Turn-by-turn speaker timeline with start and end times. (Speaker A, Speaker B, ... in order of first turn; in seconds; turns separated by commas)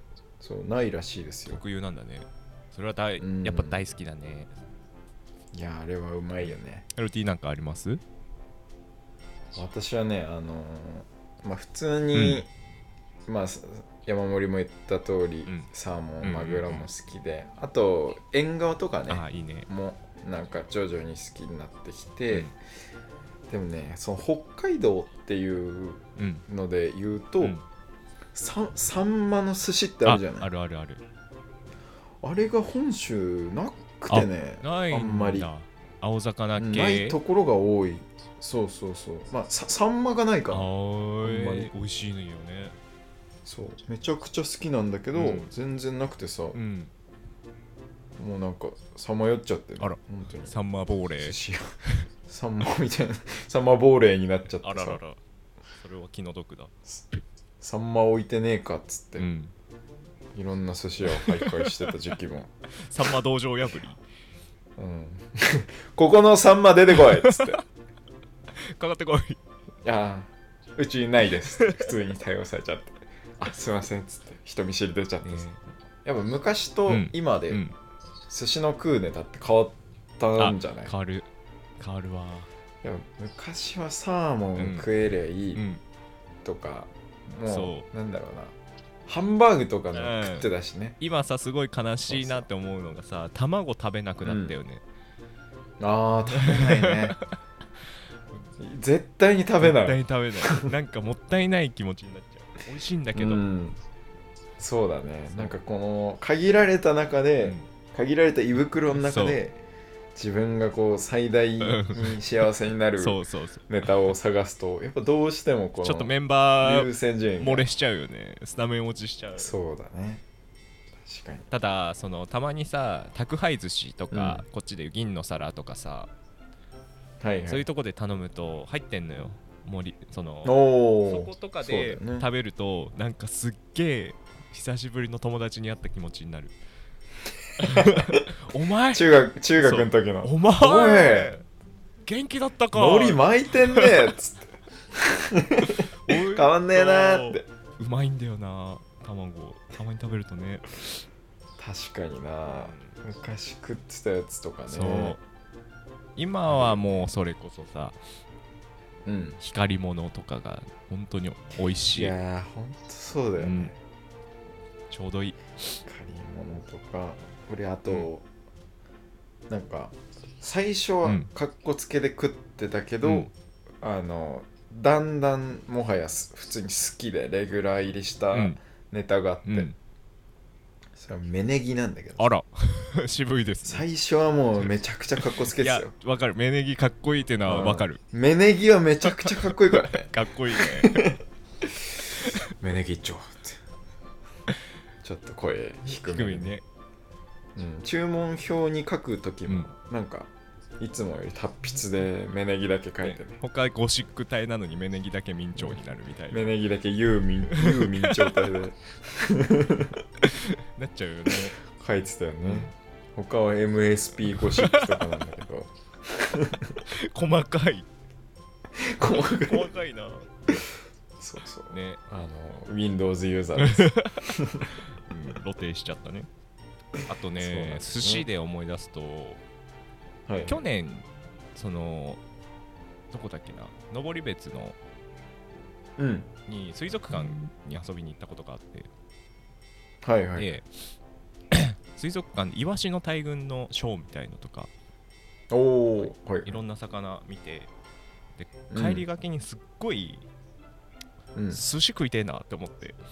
Speaker A: 0.4-1.6, Speaker B: 1.5-4.5, Speaker A: 3.2-3.8, Speaker A: 5.5-6.8, Speaker B: 6.4-8.0, Speaker A: 9.5-12.5, Speaker B: 12.1-12.4, Speaker A: 13.3-22.5, Speaker B: 16.2-16.9, Speaker B: 19.1-19.7, Speaker A: 23.5-27.6, Speaker B: 26.2-26.4, Speaker A: 28.3-30.5, Speaker B: 30.0-31.0, Speaker A: 32.2-35.5, Speaker B: 34.1-37.2, Speaker A: 36.6-40.7, Speaker B: 40.5-42.8, Speaker A: 41.2-41.7, Speaker A: 43.5-46.6, Speaker B: 45.1-45.5, Speaker B: 46.5-46.9, Speaker A: 48.2-50.6, Speaker B: 49.8-51.4, Speaker A: 51.2-51.7, Speaker A: 52.3-55.0, Speaker B: 54.6-55.2, Speaker B: 55.8-56.7, Speaker A: 57.6-59.3, Speaker B: 59.2-59.5, Speaker A: 60.3-62.5, Speaker B: 61.1-61.8, Speaker B: 62.8-64.0, Speaker A: 64.8-67.6, Speaker B: 67.0-67.6, Speaker B: 68.6-69.4, Speaker A: 69.8-75.5, Speaker B: 71.6-71.9, Speaker B: 75.2-75.6, Speaker A: 76.0-77.6, Speaker B: 76.9-77.8, Speaker A: 78.3-80.9, Speaker B: 80.4-81.3, Speaker B: 81.8-82.5, Speaker A: 82.8-85.6, Speaker B: 84.6-84.9, Speaker B: 85.5-85.8, Speaker A: 86.4-88.5, Speaker B: 87.5-87.9, Speaker A: 89.1-91.0, Speaker B: 89.9-94.8, Speaker A: 92.1-92.5, Speaker A: 94.2-94.6, Speaker A: 95.8-97.2, Speaker B: 96.3-97.4, Speaker A: 98.6-100.7, Speaker B: 99.6-103.5, Speaker A: 103.1-103.8, Speaker A: 104.6-109.6, Speaker B: 107.4-107.7, Speaker B: 108.9-109.4, Speaker A: 110.2-117.7, Speaker B: 111.6-112.2, Speaker B: 113.0-113.9, Speaker B: 115.8-119.5, Speaker A: 119.4-120.2, Speaker A: 121.0-121.5, Speaker B: 121.5-126.1, Speaker A: 124.1-124.5, Speaker A: 127.2-127.7, Speaker B: 127.5-136.6, Speaker A: 130.4-132.3, Speaker B: 137.6-141.4, Speaker A: 137.7-138.1, Speaker A: 138.9-141.3, Speaker B: 142.1-143.9, Speaker A: 142.7-147.5, Speaker B: 145.6-150.9, Speaker A: 151.6-155.2, Speaker B: 152.5-152.9, Speaker B: 154.7-155.2, Speaker B: 156.2-158.0, Speaker A: 156.5-157.1, Speaker A: 159.1-159.4, Speaker B: 159.4-162.1, Speaker A: 161.9-163.8, Speaker B: 163.4-163.7, Speaker B: 164.9-165.8, Speaker A: 165.9-168.2, Speaker A: 169.5-179.7, Speaker B: 171.0-171.3, Speaker B: 173.0-173.3, Speaker B: 178.3-178.6, Speaker B: 179.4-179.8, Speaker A: 181.0-182.3, Speaker B: 182.2-183.9, Speaker A: 183.6-185.9, Speaker B: 185.5-188.0, Speaker A: 187.5-191.2, Speaker B: 189.1-191.1, Speaker B: 192.1-192.4, Speaker A: 192.6-193.6, Speaker A: 195.0-196.6, Speaker B: 195.9-196.6, Speaker A: 197.6-203.4, Speaker B: 203.0-206.5, Speaker A: 205.6-210.0, Speaker B: 207.5-208.5, Speaker B: 210.7-211.6, Speaker A: 211.7-216.8, Speaker B: 212.4-212.7, Speaker B: 214.4-215.1, Speaker B: 216.9-217.9, Speaker A: 218.9-219.7, Speaker B: 219.1-220.3, Speaker A: 221.2-224.7, Speaker B: 221.7-222.0, Speaker B: 223.6-224.3, Speaker B: 224.9-226.3, Speaker B: 227.1-229.4, Speaker A: 227.4-228.3, Speaker A: 230.3-230.7, Speaker B: 230.5-232.2, Speaker B: 233.1-234.8, Speaker A: 236.0-236.3, Speaker B: 236.5-238.9, Speaker A: 240.0-240.5, Speaker B: 240.4-240.8, Speaker B: 241.5-244.7, Speaker A: 245.5-246.6, Speaker B: 246.0-247.7, Speaker B: 248.4-250.3, Speaker A: 248.7-249.0, Speaker A: 251.3-251.6, Speaker B: 251.5-253.0